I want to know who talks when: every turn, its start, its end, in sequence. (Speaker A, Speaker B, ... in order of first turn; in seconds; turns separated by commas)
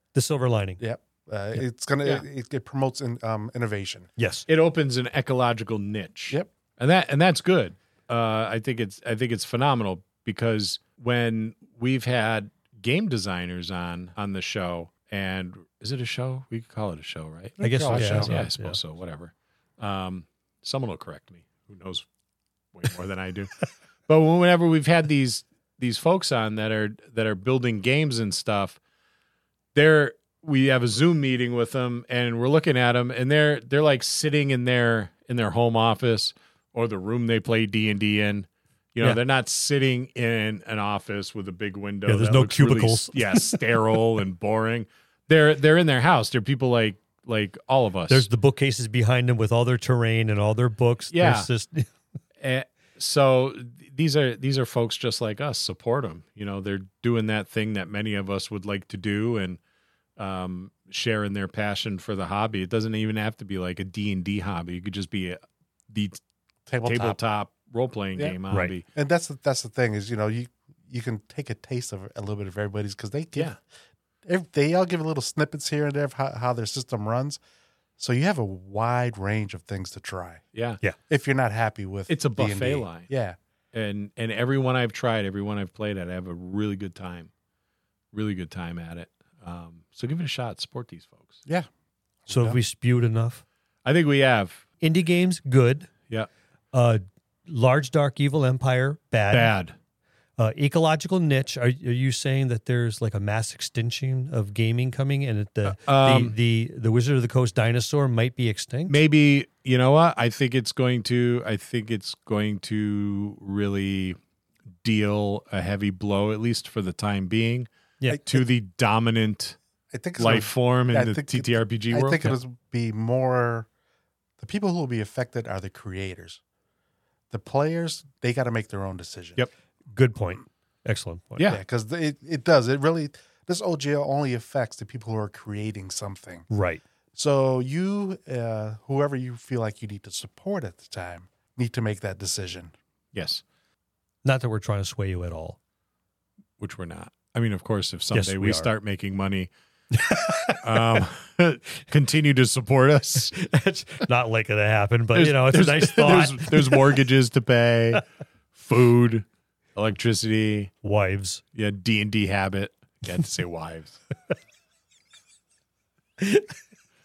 Speaker A: 0.1-0.8, Speaker B: 0.8-4.1, Speaker A: 4.2-4.4, Speaker C: 4.5-22.1, Speaker B: 17.6-18.5, Speaker A: 17.6-18.8, Speaker C: 22.7-28.8, Speaker C: 29.7-48.3, Speaker A: 42.1-43.6, Speaker A: 48.1-51.9, Speaker C: 51.1-51.5, Speaker C: 52.4-59.6, Speaker C: 60.2-66.2, Speaker B: 66.7-67.2, Speaker C: 66.8-68.8, Speaker B: 68.9-73.5, Speaker B: 74.2-77.4, Speaker B: 78.0-80.4, Speaker C: 80.5-80.8, Speaker B: 81.1-83.4, Speaker C: 82.1-83.1, Speaker C: 83.7-87.3, Speaker C: 88.1-91.4, Speaker B: 92.2-92.6, Speaker A: 92.3-93.4, Speaker C: 93.8-94.6, Speaker A: 94.8-95.9, Speaker A: 96.7-99.5, Speaker C: 99.3-99.7, Speaker A: 100.4-109.0, Speaker C: 105.6-106.3, Speaker C: 108.9-114.2, Speaker C: 114.8-117.7, Speaker B: 118.1-118.4, Speaker C: 118.2-119.6, Speaker B: 119.9-123.7, Speaker C: 120.2-122.3, Speaker B: 124.4-126.4, Speaker B: 127.3-129.4, Speaker A: 129.9-131.5, Speaker B: 131.5-136.4, Speaker A: 136.5-136.8, Speaker B: 137.1-142.7, Speaker C: 143.1-143.4, Speaker A: 144.2-145.6, Speaker C: 146.6-149.5, Speaker A: 148.1-148.7, Speaker A: 149.9-151.0, Speaker C: 150.6-153.3, Speaker A: 153.3-156.9, Speaker C: 155.1-158.0, Speaker C: 158.5-160.7, Speaker A: 160.8-161.4, Speaker C: 161.6-164.0, Speaker A: 166.2-166.5